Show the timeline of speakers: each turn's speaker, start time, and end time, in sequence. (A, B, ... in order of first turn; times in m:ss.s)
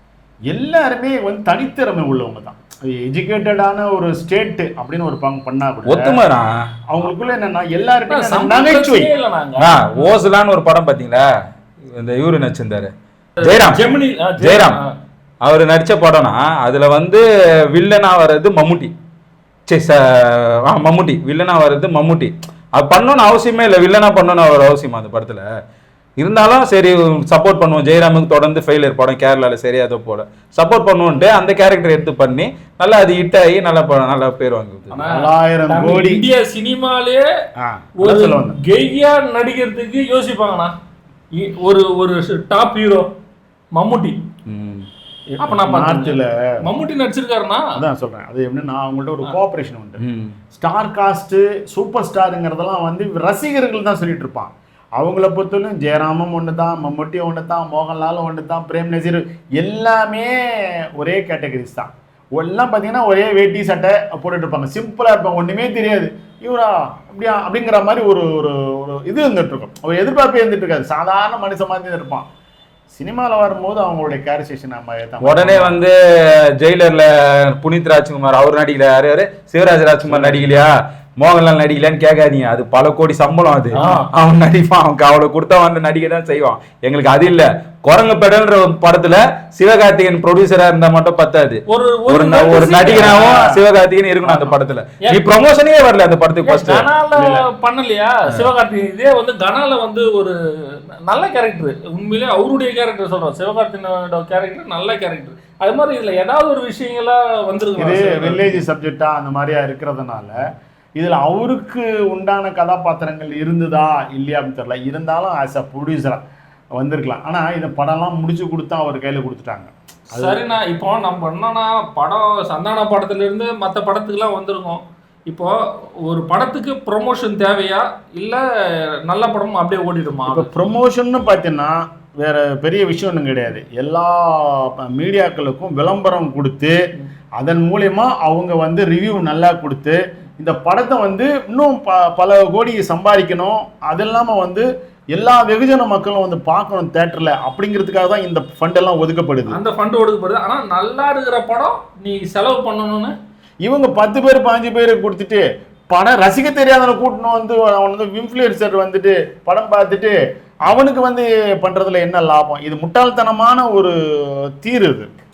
0:00.5-0:06.2 A
0:05.9-0:06.5 B
0:06.9-0:09.1 A
0:08.1-0:10.1 C
0:09.6-0:11.2 B
0:12.0-0:13.8 B
0:13.4-0:14.9 C
0:14.4-0:14.8 B
0:15.4-0:18.9 B
0:19.7-0:25.4 B
0:26.2-0:35.0 B
0:34.9-0:37.2 C
0:35.0-0:36.2 A
0:37.6-0:38.6 A
0:38.0-0:40.7 C
0:41.4-0:43.1 C
0:43.8-0:44.2 C
0:44.5-0:44.9 B
0:45.4-0:46.4 A
0:45.4-0:47.7 C
0:47.8-0:50.0 A
0:50.0-0:50.4 B
0:50.5-1:00.4 A
1:00.9-1:12.3 A
1:12.9-1:15.8 A
1:15.2-1:36.9 B
1:20.1-1:20.6 A
1:23.8-1:24.1 C
1:31.7-1:33.5 C
1:33.2-1:33.6 A
1:34.3-1:34.5 A
1:36.4-1:48.6 C
1:37.2-1:37.5 A
1:47.8-1:50.4 A
1:51.0-1:56.2 A
1:56.8-2:00.4 A
2:00.1-2:05.5 C
2:06.1-2:08.4 C
2:09.1-2:10.6 C
2:10.3-2:16.8 A
2:17.4-2:29.6 A
2:29.5-2:33.2 C
2:33.6-2:45.1 A